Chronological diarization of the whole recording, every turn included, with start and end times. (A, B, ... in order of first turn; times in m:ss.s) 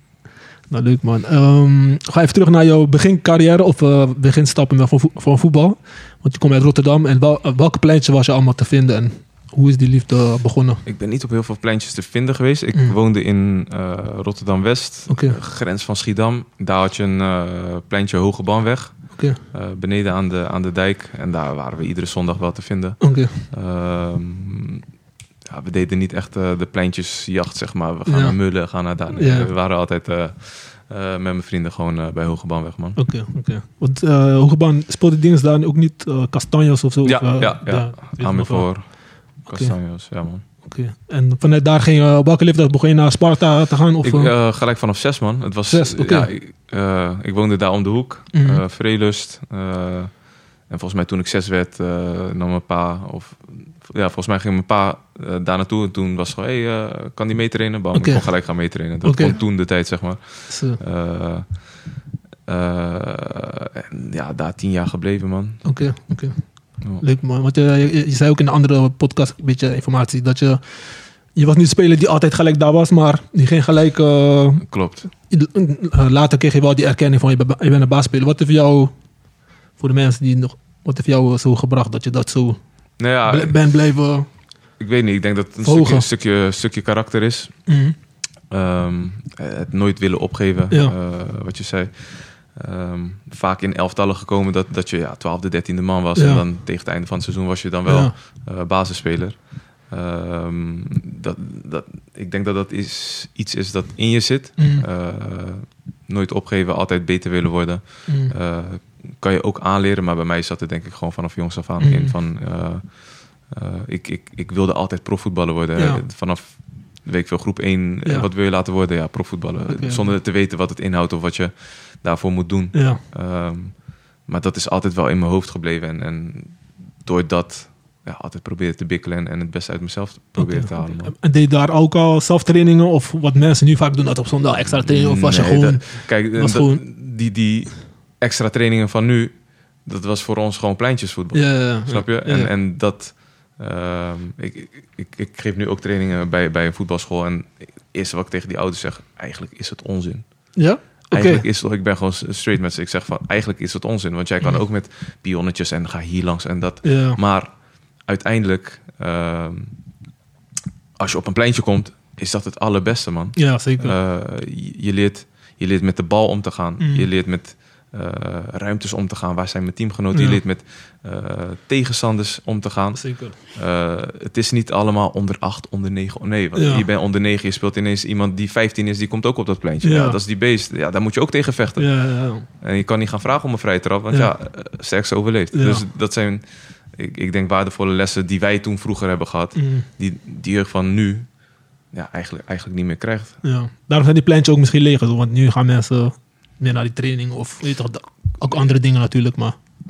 0:00.7-0:10.8 A
0:10.8-0:24.8 B
0:15.1-0:15.4 A
0:19.1-0:19.4 A
0:23.0-0:23.4 A
0:25.5-0:33.0 B
0:28.1-0:28.4 A
0:29.1-0:29.5 A
0:33.0-0:39.8 A
0:37.0-0:40.4 B
0:40.6-0:44.3 A
0:44.0-1:01.7 B
0:45.7-0:46.3 A
0:48.3-0:48.6 A
0:57.9-0:58.3 A
0:59.0-0:59.4 A
1:00.5-1:00.8 A
1:02.5-1:05.6 B
1:05.6-1:14.7 A
1:14.6-1:15.1 B
1:15.2-1:18.9 A
1:19.8-1:22.6 A
1:23.0-1:23.6 B
1:23.2-1:24.3 A
1:24.8-1:27.6 B
1:25.6-1:26.1 A
1:27.7-1:28.0 A
1:28.5-2:11.1 B
1:36.2-1:36.4 A
1:37.9-1:38.1 A
1:44.6-1:44.8 A
1:48.1-1:48.3 A
1:51.8-1:52.1 A
1:55.8-1:56.0 A
1:59.7-2:00.1 A
2:02.7-2:03.0 A
2:10.4-2:16.8 A
2:14.7-2:37.5 B
2:21.3-2:22.5 A
2:30.6-2:31.4 A
2:36.8-2:37.2 A
2:38.0-2:39.7 B
2:41.0-3:11.3 B
2:43.4-2:44.0 A
2:46.8-2:47.1 A
2:50.1-2:50.4 A
2:53.0-2:53.4 A
2:56.6-2:56.8 A
2:59.8-3:00.2 A
3:01.8-3:02.5 A
3:05.5-3:05.8 A
3:09.6-3:09.9 A
3:11.9-3:13.4 B
3:13.4-3:19.6 A